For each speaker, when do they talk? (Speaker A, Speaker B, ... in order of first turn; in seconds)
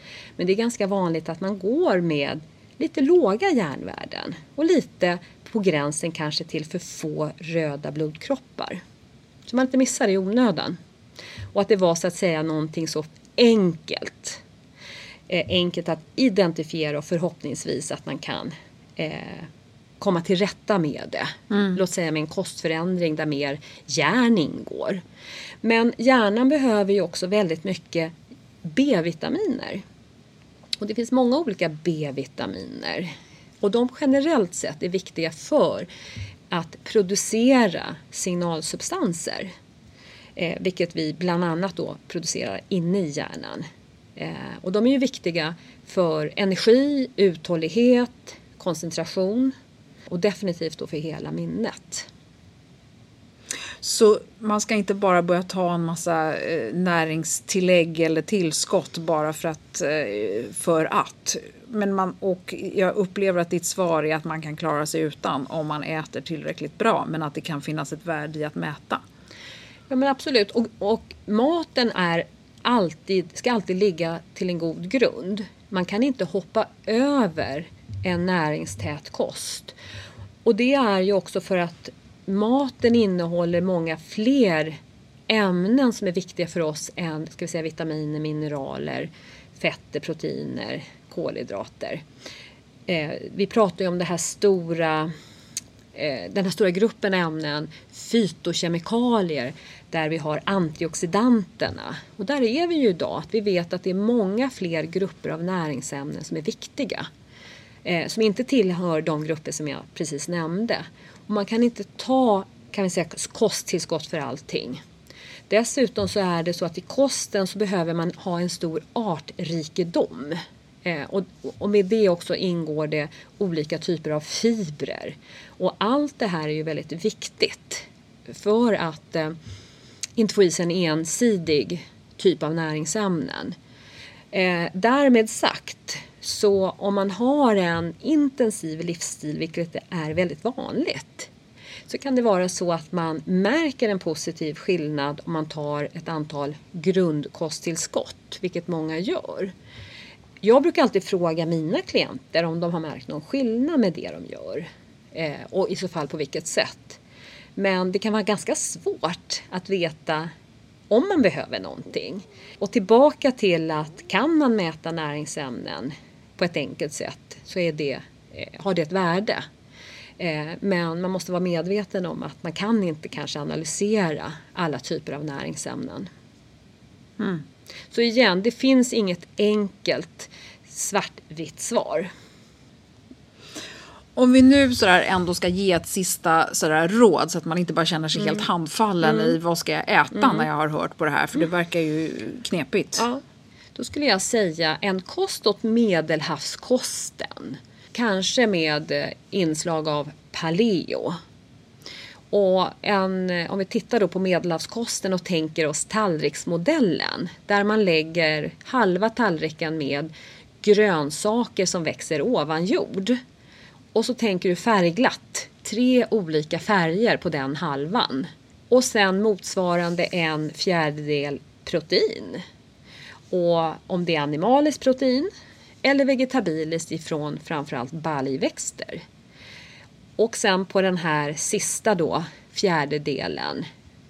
Speaker A: 0.4-8.8, 9.5-10.8, 11.5-14.4, 15.3-19.5, 20.0-25.0, 25.6-28.1, 28.6-29.8, 30.8-35.9, 36.5-39.5, 40.4-49.5, 50.1-52.1, 69.9-79.7, 80.5-84.8, 85.3-92.0, 92.9-95.1, 95.9-107.1, 107.8-114.8, 115.5-129.4, 130.2-133.6, 134.3-141.3, 141.9-149.5, 150.4-157.0, 157.6-160.3, 160.9-169.4, 170.2-176.1, 177.9-182.1, 188.2-188.4, 189.1-189.3, 190.2-190.5, 193.8-201.2, 202.3-210.1, 210.6-213.2, 213.9-222.4, 223.3-225.3, 225.8-229.0, 230.2-233.7
Speaker B: 21.5-21.8, 53.8-69.0, 177.2-177.4, 184.2-193.1